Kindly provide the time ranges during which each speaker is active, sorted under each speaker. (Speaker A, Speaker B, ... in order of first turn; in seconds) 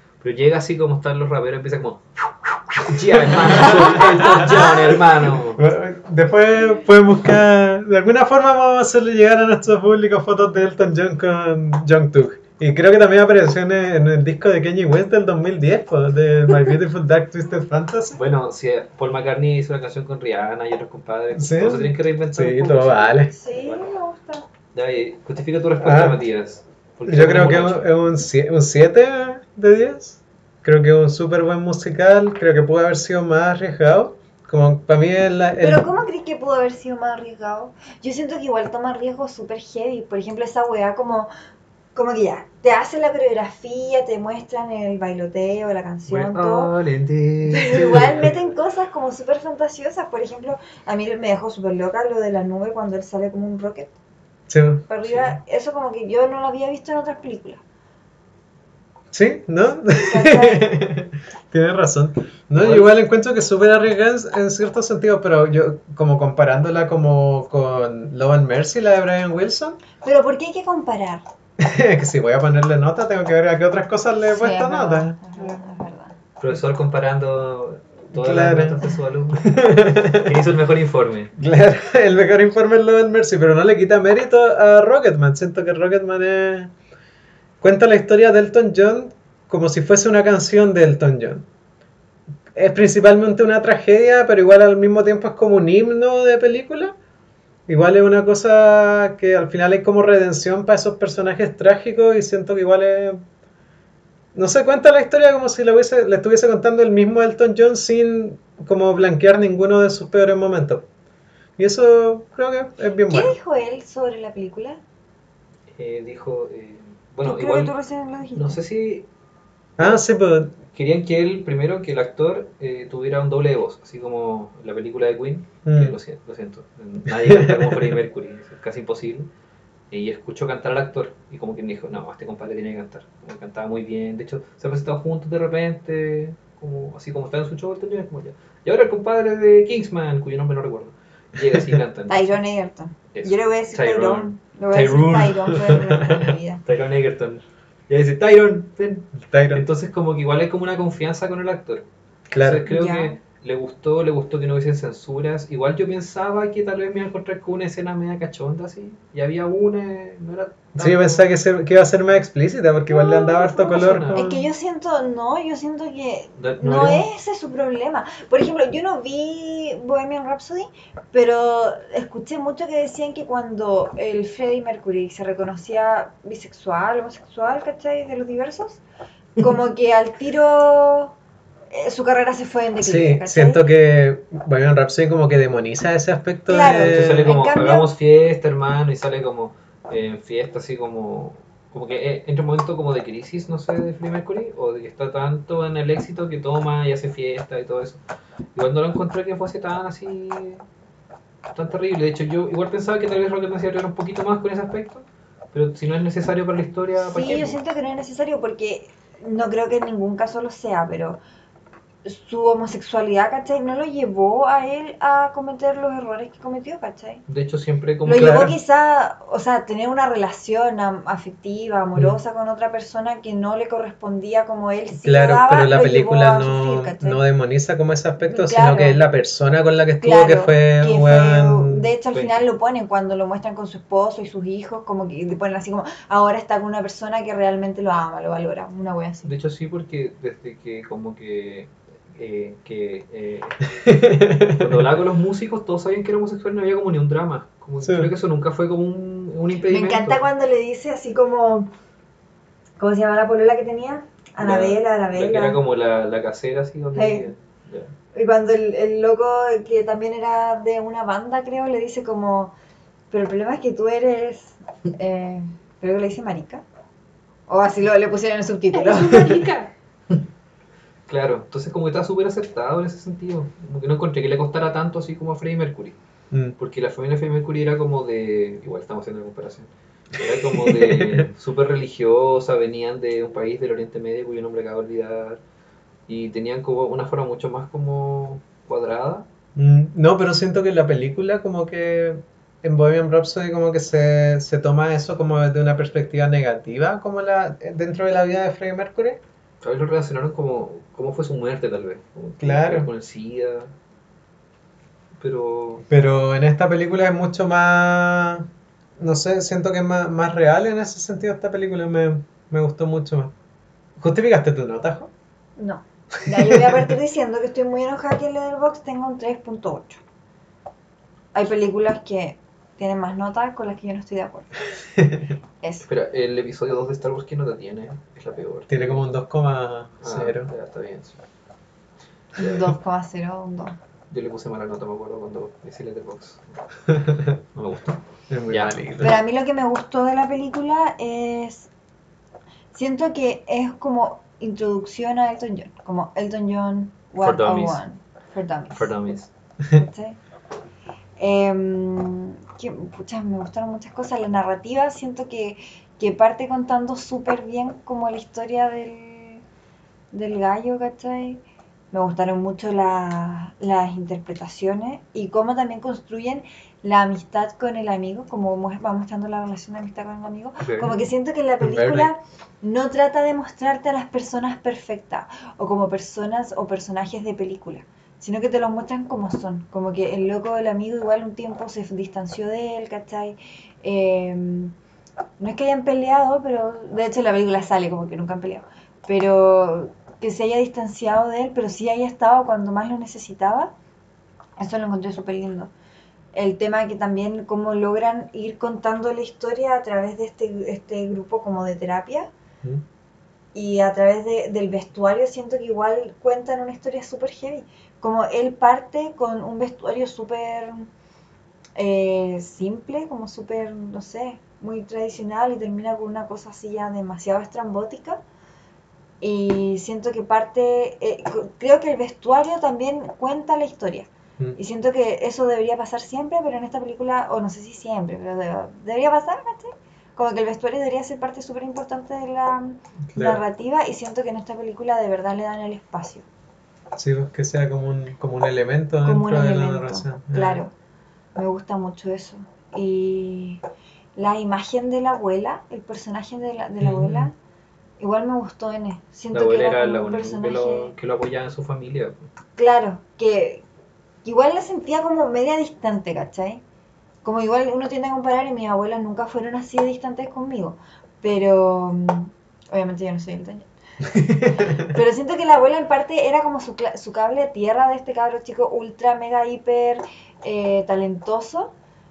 Speaker A: 0.2-5.6, 18.1-23.9, 24.7-27.9, 46.1-48.4, 55.0-55.3, 62.6-63.0, 76.4-81.3, 115.7-117.7, 118.3-119.1, 120.7-129.3, 129.9-142.3, 143.1-161.2, 162.9-164.3, 166.4-167.0, 186.6-198.0, 198.5-200.6, 201.5-207.6, 217.3-218.5, 232.1-232.4, 239.2-243.7, 244.5-250.2, 254.4-257.9, 268.7-270.2, 271.1-276.0, 276.6-285.4, 286.1-289.2, 299.6-303.7, 305.2-305.8, 325.9-329.0, 330.0-331.2, 334.1-338.8, 347.2-347.8, 348.7-349.3, 370.6-371.0, 449.3-452.3
Speaker B: 3.1-18.2, 21.3-23.3, 25.8-26.2, 27.1-35.8, 54.5-54.8, 59.1-69.8, 71.6-75.6, 78.1-80.4, 81.3-86.7, 87.6-91.5, 92.5-96.9, 97.7-103.2, 104.3-110.9, 111.6-113.3, 119.8-120.6, 125.7-126.0, 127.1-128.0, 145.7-146.2, 149.2-149.7, 152.3-152.7, 160.8-164.4, 166.7-166.9, 182.8-187.3, 218.1-218.5, 225.0-231.9, 243.8-244.8, 247.8-248.1, 280.6-281.3, 289.6-299.2, 302.4-302.9, 305.9-313.3, 314.0-315.1, 316.3-316.8, 324.9-325.3, 328.7-330.5, 338.3-339.2, 371.6-372.1, 433.1-433.4, 436.9-440.6, 446.8-447.3, 464.1-464.9
Speaker C: 3.9-4.7, 23.3-24.4, 35.6-41.3, 41.9-46.7, 47.5-53.9, 54.9-57.6, 60.0-60.7, 70.0-71.2, 74.3-76.2, 113.1-114.8, 117.2-118.6, 142.1-146.6, 152.7-153.2, 164.1-178.8, 179.4-181.1, 181.7-183.6, 186.5-187.9, 207.0-211.2, 212.0-217.2, 218.0-227.2, 228.2-229.0, 230.0-239.3, 249.7-251.7, 252.8-255.6, 256.9-257.3, 258.1-262.5, 263.1-266.6, 267.5-269.5, 315.6-320.0, 321.3-324.5, 332.4-333.8, 339.0-341.7, 342.7-348.9, 349.7-350.2, 351.2-359.4, 360.1-384.7, 385.4-393.7, 394.6-395.7, 396.3-402.3, 403.5-410.9, 411.8-418.2, 419.2-436.2, 439.0-440.7, 441.4-443.6, 444.1-447.3, 448.0-450.9, 452.6-453.6, 454.2-456.6, 457.2-463.7, 464.5-471.7